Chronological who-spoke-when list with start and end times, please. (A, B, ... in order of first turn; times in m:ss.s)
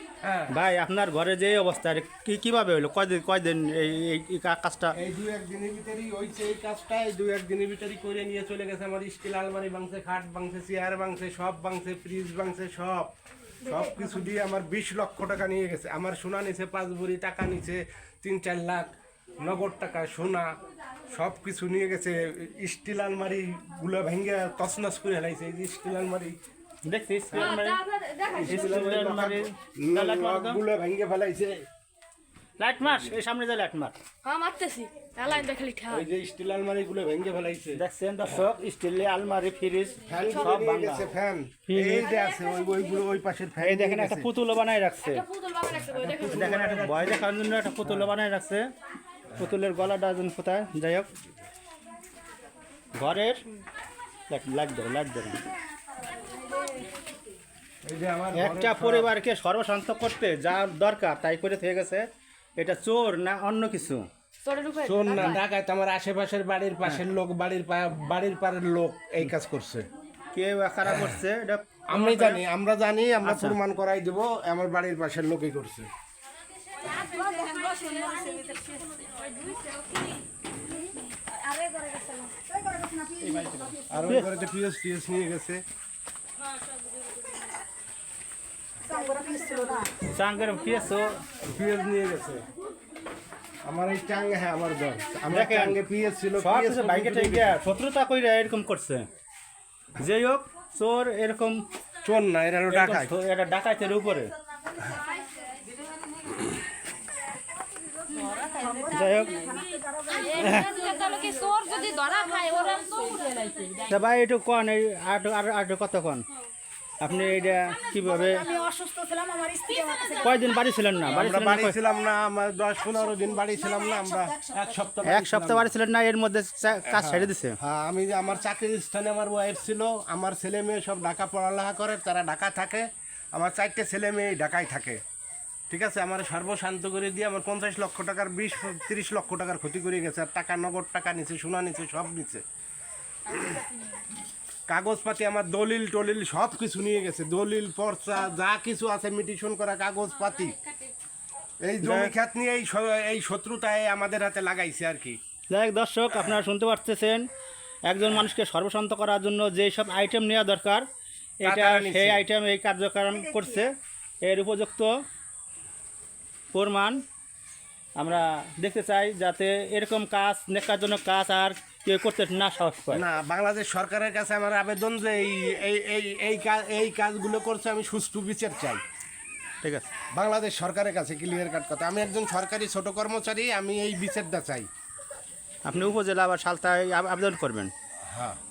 0:00.2-0:00.5 A
0:00.5-0:05.0 B
0:04.9-0:13.1 A
0:13.6-0:20.5 A
0:21.1-0:26.4 A
0:26.8-0:27.8 B
0:27.4-0:28.5 C
0:28.3-0:31.7 A
0:28.3-0:30.6 B
0:32.6-0:34.0 B
0:32.8-0:33.1 A
0:34.2-0:36.0 C
0:35.3-0:38.4 A
0:37.7-0:41.1 B
0:40.0-0:44.3 A
0:41.7-0:42.1 B
0:43.6-0:45.2 B
0:45.2-0:46.4 C
0:45.8-0:47.2 A
0:46.3-0:48.7 B
0:49.4-0:51.1 B
0:53.0-0:53.4 B
0:54.3-0:55.4 B
0:57.8-0:59.1 A
0:58.3-1:02.0 B
1:02.6-1:04.1 B
1:04.4-1:05.4 C
1:04.8-1:09.9 A
1:10.3-1:12.4 B
1:11.9-1:15.9 A
1:13.2-1:13.6 B
1:16.9-1:20.0 C
1:17.5-1:18.1 D
1:21.4-1:22.3 C
1:22.4-1:23.7 D
1:23.4-1:24.3 B
1:23.9-1:25.6 A
1:28.8-1:29.9 D
1:30.1-1:31.2 B
1:31.4-1:32.4 A
1:33.6-1:37.5 A
1:35.3-1:35.8 B
1:36.4-1:39.1 B
1:40.0-1:41.6 B
1:42.0-1:43.1 A
1:42.7-1:44.3 B
1:48.2-1:48.9 C
1:48.4-1:51.2 D
1:48.9-1:49.4 B
1:49.4-1:53.8 C
1:50.4-1:50.6 B
1:53.9-1:56.2 B
1:57.0-1:58.4 B
1:57.9-2:00.3 D
1:59.9-2:00.2 C
2:00.2-2:01.8 B
2:01.0-2:05.7 A
2:04.0-2:04.9 D
2:05.0-2:07.6 B
2:06.9-2:15.0 A
2:15.7-2:22.4 A
2:24.7-2:30.6 A
2:31.6-2:35.2 A
2:31.8-2:32.1 B
2:35.5-2:37.2 B
2:37.9-2:40.8 B
2:41.4-2:44.9 B
2:41.4-2:42.2 A
2:46.5-2:47.0 B
2:48.0-2:53.0 B
2:52.9-2:58.8 A
3:00.1-3:04.7 A
3:05.6-3:07.7 B
3:08.1-3:08.4 A